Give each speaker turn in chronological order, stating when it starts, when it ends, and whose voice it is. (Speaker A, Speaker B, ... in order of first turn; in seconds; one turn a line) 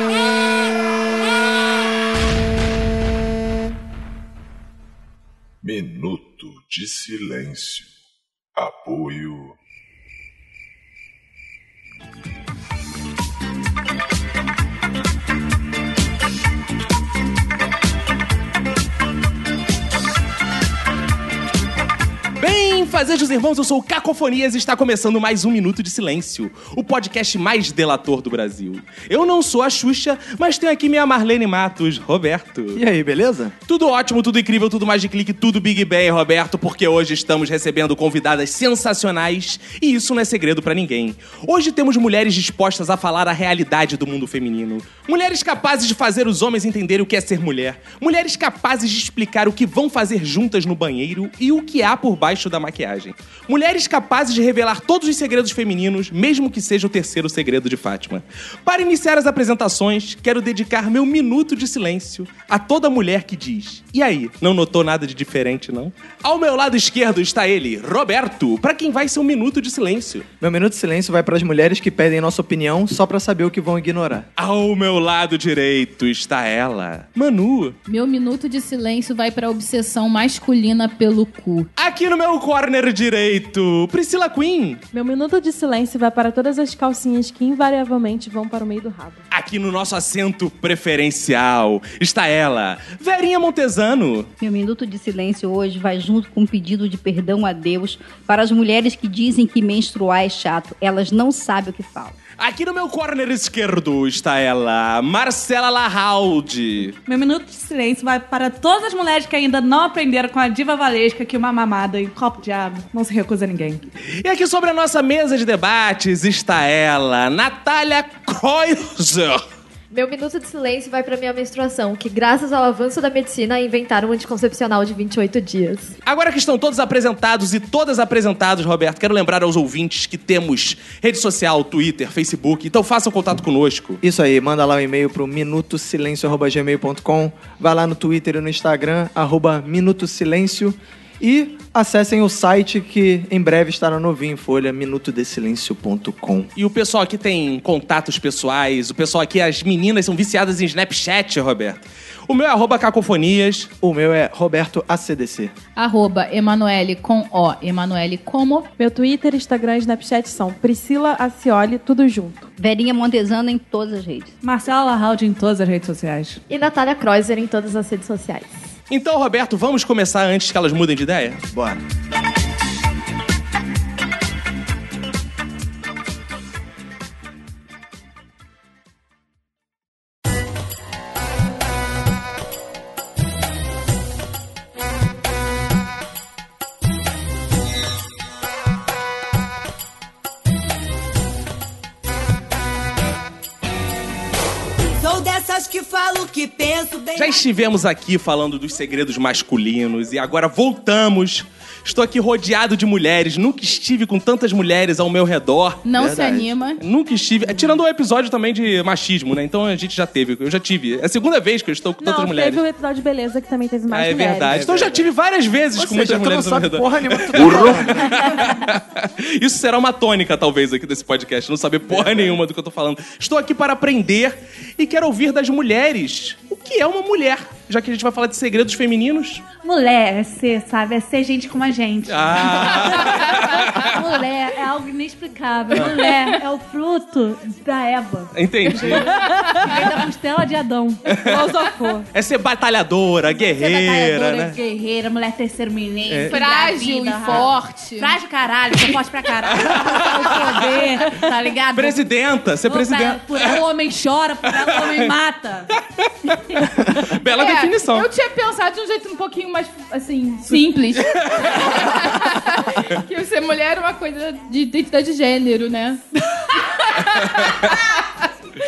Speaker A: 5.6-7.9
Speaker A: 8.6-9.6
Speaker B: 22.4-32.8
Speaker C: 32.8-33.5
Speaker B: 33.7-70.3
Speaker C: 70.4-74.3
Speaker B: 74.4-77.8
Speaker D: 77.9-81.7
Speaker B: 81.8-84.8
Speaker E: 84.9-89.2
Speaker B: 89.3-94.3
Speaker F: 94.4-102.2
Speaker B: 102.4-107.0
Speaker G: 107.1-113.9
Speaker B: 114.2-119.4
Speaker H: 119.9-125.9
Speaker B: 126.0-134.0
Speaker C: 134.0-146.5
Speaker B: 146.6-153.7
Speaker C: 153.8-155.5
Speaker D: 155.8-158.7
Speaker E: 158.8-162.5
Speaker F: 162.6-164.3
Speaker G: 164.4-166.4
Speaker H: 166.5-168.5
Speaker B: 168.9-171.4
Speaker C: 171.5-171.8
Speaker I: 194.8-197.4
Speaker B: 197.2-205.8
Speaker D: 205.8-206.8
Speaker C: 206.0-206.5
Speaker B: 206.8-212.6
Speaker E: 212.0-214.7
Speaker B: 213.9-229.4
Speaker C: 214.5-215.1
Speaker C: 215.8-218.4
Speaker C: 221.9-222.4
Speaker G: 229.6-241.0
Speaker B: 232.1-234.0
Speaker B: 238.3-239.2
Speaker B: 241.1-241.5
Speaker E: 241.3-242.1
Speaker B: 242.1-244.6
Speaker G: 243.6-252.1
Speaker B: 246.1-246.4
Speaker D: 246.3-248.1
Speaker B: 249.7-250.4
Speaker B: 251.7-253.6
Speaker G: 252.6-255.7
Speaker B: 254.5-255.1
Speaker B: 255.8-258.1
Speaker D: 257.4-268.0
Speaker B: 261.1-261.8